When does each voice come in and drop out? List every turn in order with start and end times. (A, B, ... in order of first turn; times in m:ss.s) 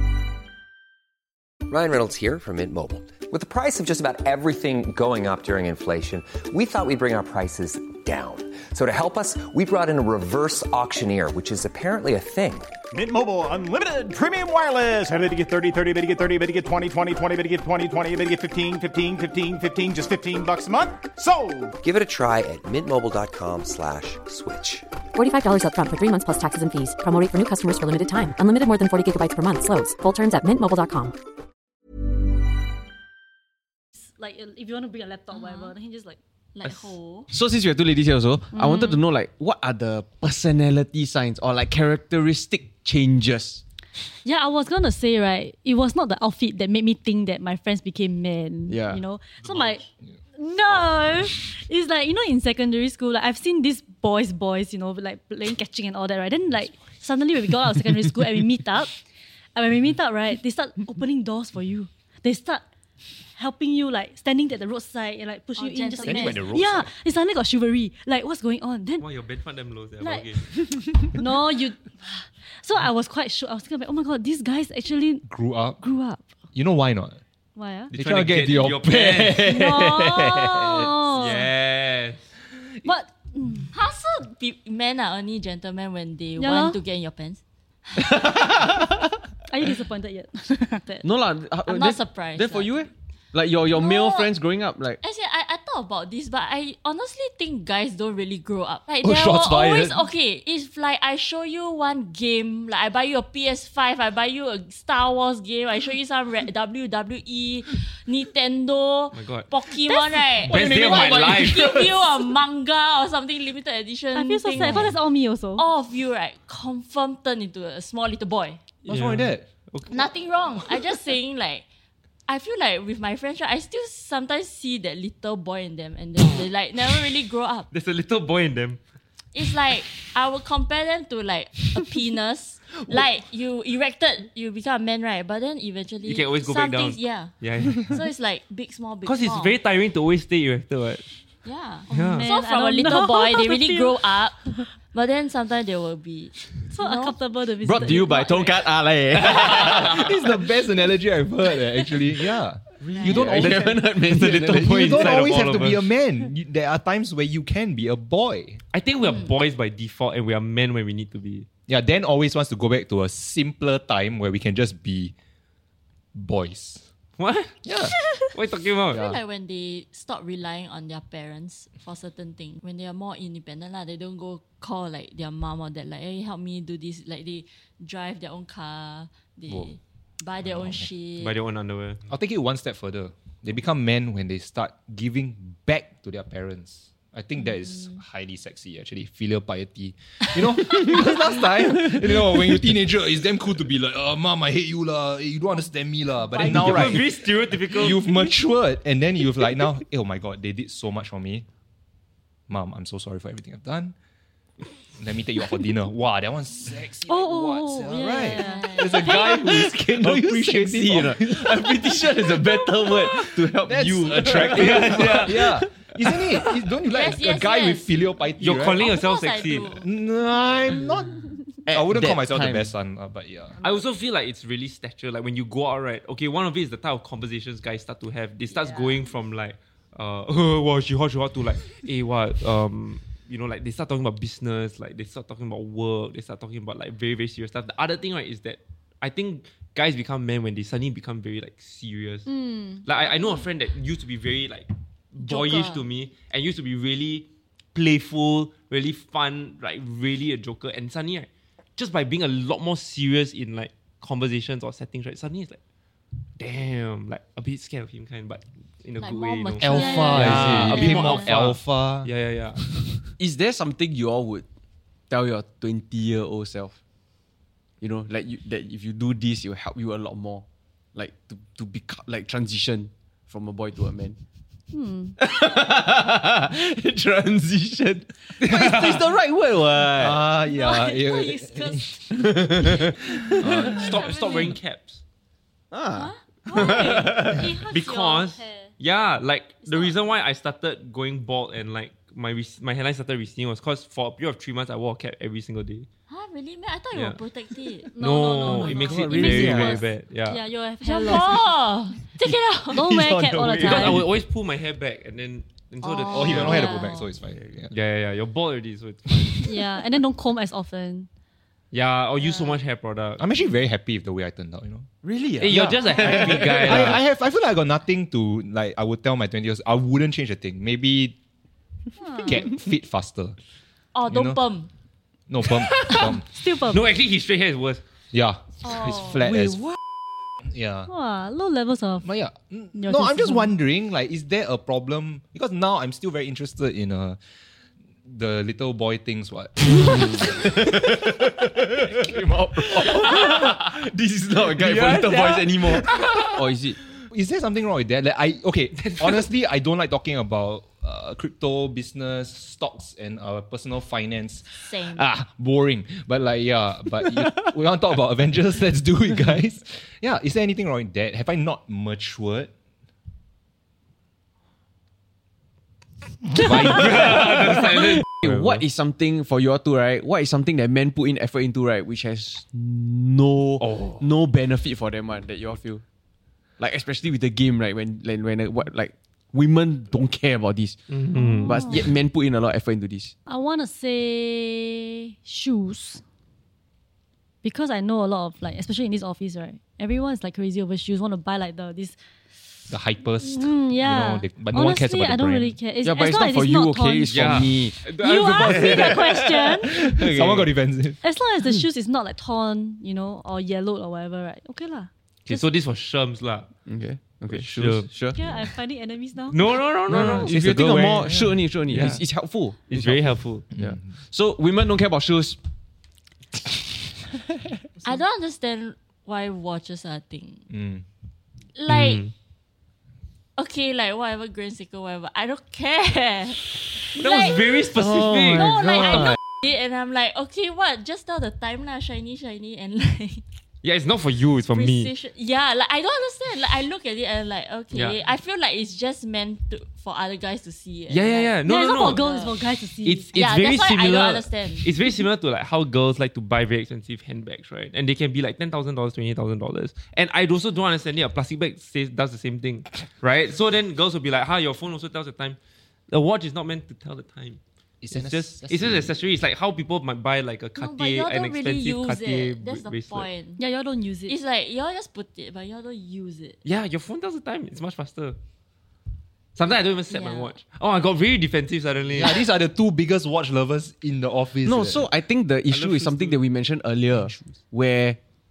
0:01.7-0:12.7 A
0:12.9-0:21.7 B
0:21.8-0:24.8 A
0:25.1-0:31.1 C
0:34.0-0:36.2 D
0:35.3-0:35.7 E
0:36.5-0:37.3 E
0:36.6-0:36.9 F
0:37.3-0:43.6 G
0:38.5-0:39.0 D
0:44.2-0:49.8 D
0:48.7-0:49.0 G
0:49.4-0:49.7 F
0:50.4-0:59.0 D
0:59.5-1:02.6 D
1:03.4-1:09.0 D
1:05.6-1:06.4 E
1:06.0-1:06.9 H
1:09.0-1:10.5 F
1:10.0-1:15.3 D
1:15.3-1:15.8 H
1:15.8-1:16.3 D
1:16.5-1:17.2 H
1:17.6-1:17.9 D
1:17.9-1:20.9 H
1:17.9-1:19.5 F
1:19.4-1:21.4 D
1:21.1-1:22.3 F
1:22.8-1:23.7 D
1:23.7-1:28.4 E
1:26.4-1:26.8 D
1:28.0-1:29.0 G
1:29.5-1:31.0 D
1:31.0-1:35.0 G
1:31.6-1:32.8 E
1:33.7-1:34.3 E
1:35.0-1:55.0 E
1:39.0-1:40.1 H
1:49.1-1:49.5 F
1:50.4-1:52.1 F
1:50.5-1:51.8 H
1:54.1-1:55.6 D
1:55.6-1:58.6 E
1:58.8-2:00.8 F
1:58.8-1:59.4 H
1:59.9-2:01.6 E
2:02.3-2:07.7 E
2:07.7-2:08.8 F
2:09.3-2:17.4 E
2:16.0-2:18.0 F
2:17.9-2:19.6 E
2:19.0-2:21.0 F
2:21.4-2:28.7 E
2:21.9-2:22.3 F
2:22.2-2:24.7 D
2:26.7-2:28.4 D
2:27.6-2:30.0 G
2:29.2-2:30.1 F
2:29.8-2:33.8 H
2:32.8-2:35.3 G
2:33.3-2:35.8 F
2:34.5-2:38.6 H
2:38.7-2:41.5 F
2:39.0-2:39.3 E
2:41.7-2:45.1 H
2:46.1-2:46.9 H
2:47.2-2:47.6 F
2:47.6-2:47.9 H
2:48.3-2:49.0 F
2:48.9-3:01.4 E
2:48.9-2:49.2 G
3:00.4-3:00.9 H
3:01.2-3:02.0 F
3:02.1-3:21.4 H
3:16.4-3:18.0 F
3:22.5-3:23.9 H
3:25.0-3:38.9 H
3:27.1-3:29.5 D
3:28.2-3:29.4 E
3:29.4-3:35.6 G
3:34.3-3:35.6 F
3:36.9-3:38.0 E
3:38.4-3:39.8 F
3:38.8-3:39.9 E
3:39.8-3:43.6 H
3:41.6-3:42.7 G
3:43.6-4:02.3 F
3:48.6-3:48.9 E
4:02.3-4:02.8 D
4:02.8-4:15.6 F
4:03.0-4:03.5 E
4:05.2-4:05.9 E
4:16.4-4:22.7 F
4:19.0-4:21.3 E
4:19.6-4:22.1 H
4:19.7-4:21.0 D
4:23.2-4:24.4 G
4:25.1-4:26.8 G
4:27.8-4:34.2 G
4:34.7-4:35.2 D
4:35.2-4:40.2 G
4:38.4-4:39.0 H
4:39.9-4:41.9 H
4:40.4-4:42.4 E
4:42.1-4:42.9 G
4:43.3-4:44.1 H
4:43.4-4:44.6 E
4:43.5-4:45.0 F
4:45.7-4:47.4 G
4:45.9-4:47.3 E
4:46.5-4:48.7 D
4:47.7-4:55.9 F
4:49.6-4:49.9 E
4:56.1-4:57.9 E
4:56.9-4:57.2 F
4:58.0-5:01.5 D
4:58.0-5:00.4 F
4:58.4-4:58.7 E
4:58.5-4:59.9 G
5:00.8-5:02.8 E
5:02.7-5:04.0 D
5:02.7-5:04.1 H
5:03.6-5:06.8 F
5:05.8-5:07.1 E
5:06.0-5:07.7 H
5:07.7-5:09.4 F
5:09.4-5:11.1 D
5:11.7-5:13.2 F
5:12.2-5:12.5 E
5:13.2-5:21.2 H
5:15.0-5:16.9 G
5:15.4-5:17.0 F
5:22.0-5:22.3 D
5:22.2-5:23.4 H
5:23.9-5:24.7 E
5:24.1-5:24.4 H
5:25.3-5:26.2 H
5:25.7-5:26.2 F
5:25.9-5:26.8 D
5:26.7-5:27.8 F
5:28.1-5:29.8 H
5:28.6-5:29.2 E
5:29.3-5:29.7 G
5:30.4-5:30.9 H
5:30.9-5:32.1 D
5:32.0-5:37.2 H
5:32.7-5:33.5 D
5:38.0-5:41.8 H
5:39.8-5:46.8 G
5:44.6-5:46.1 H
5:47.0-6:02.5 H
5:48.8-5:49.3 F
5:54.6-5:55.1 E
6:06.3-6:07.4 H
6:06.4-6:08.6 F
6:07.0-6:15.8 G
6:13.6-6:14.0 F
6:16.6-6:20.8 G
6:20.9-6:21.8 F
6:21.1-6:21.8 D
6:21.4-6:23.1 G
6:23.3-6:26.0 D
6:27.4-6:32.0 D
6:32.7-6:35.5 H
6:33.2-6:39.8 D
6:35.8-6:39.1 G
6:37.1-6:39.3 F
6:39.8-6:40.5 G
6:39.8-6:41.0 H
6:41.0-6:45.4 D
6:45.2-6:46.5 F
6:46.6-6:48.2 G
6:47.3-6:47.9 F
6:48.1-6:49.4 D
6:49.3-6:50.3 F
6:49.9-6:52.0 H
6:49.9-6:55.4 G
6:51.7-6:52.0 F
6:52.7-6:53.4 F
6:57.8-7:00.5 E
7:00.5-7:00.8 H
7:01.5-7:02.1 E
7:01.7-7:02.1 F
7:03.4-7:07.7 E
7:06.9-7:09.2 F
7:07.8-7:08.5 G
7:08.3-7:13.2 E
7:08.5-7:09.1 H
7:13.6-7:14.9 F
7:14.5-7:22.3 E
7:17.7-7:18.0 F
7:20.9-7:22.0 F
7:21.4-7:23.1 D
7:22.8-7:35.4 F
7:23.1-7:24.8 E
7:35.9-7:37.4 F
7:37.8-7:38.9 H
7:37.9-7:43.1 F
7:40.6-7:43.4 E
7:43.4-7:44.1 D
7:44.1-7:46.4 E
7:46.4-7:48.2 F
7:49.4-7:52.2 F
7:49.9-7:50.4 E
7:51.9-7:54.9 H
7:54.4-7:58.0 G
7:55.5-7:56.2 F